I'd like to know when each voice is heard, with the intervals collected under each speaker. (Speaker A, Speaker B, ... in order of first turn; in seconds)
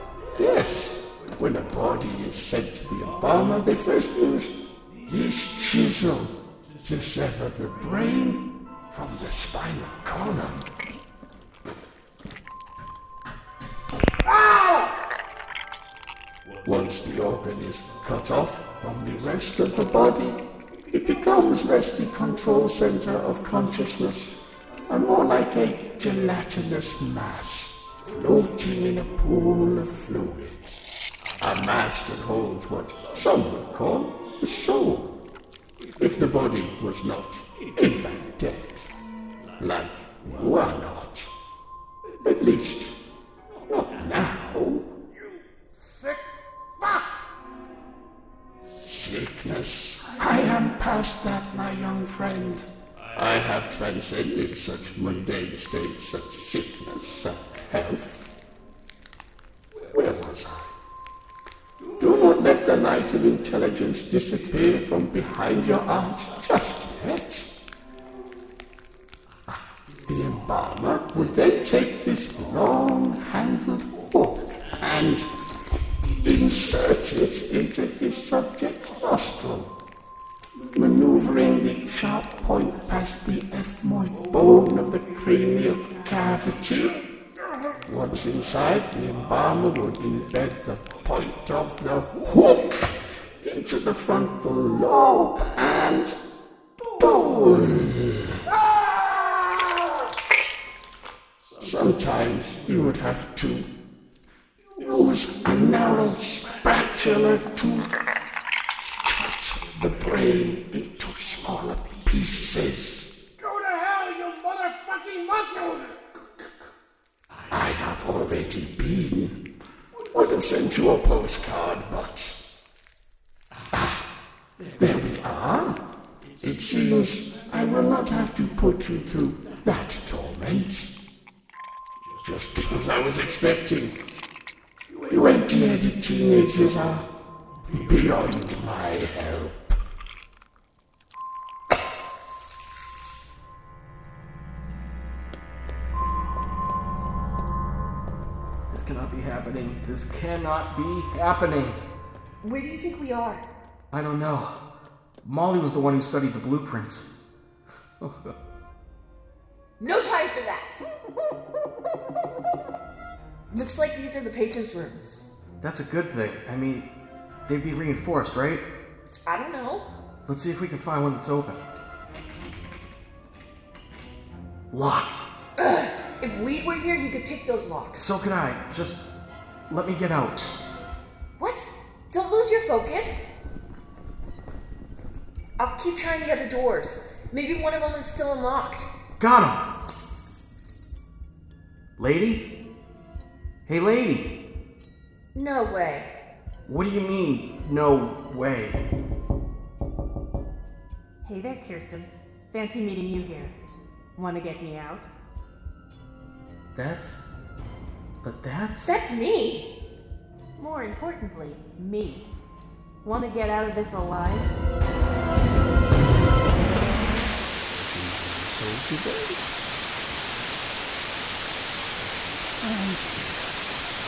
Speaker A: 0.3-4.5, 5.1-10.7, 16.6-20.4, 20.9-24.4, 24.9-30.8, 31.4-35.1, 36.0-38.9, 39.6-41.3, 42.2-42.9, 43.6-44.9, 48.8-58.3, 59.9-60.8, 62.0-67.5, 70.0-75.2, 76.2-79.7, 80.7-87.0, 87.8-96.1, 97.0-98.6, 101.6-103.7, 104.8-107.9, 109.0-113.1, 117.5-119.4, 120.1-122.4, 124.8-125.8, 126.4-130.9, 132.2-134.0, 135.1-137.1, 137.7-139.8, 217.5-219.4, 222.6-223.6
Speaker B: 14.2-14.9, 45.2-47.2, 113.4-116.0
Speaker C: 148.7-151.8, 153.9-154.6, 155.2-157.1, 158.0-158.3, 165.6-166.9, 167.5-168.7, 170.2-171.6, 174.7-175.3, 177.9-179.0, 179.7-180.5, 189.2-189.6, 192.0-192.4, 193.7-194.3, 196.7-198.8, 206.7-207.2, 208.2-209.0
Speaker D: 152.4-153.4, 159.8-160.8, 163.5-165.2, 169.2-169.8, 175.6-178.2, 181.4-183.3, 185.6-188.9, 195.3-196.1, 208.8-209.7
Speaker E: 201.2-203.6, 204.2-205.1, 210.6-212.2, 213.0-214.5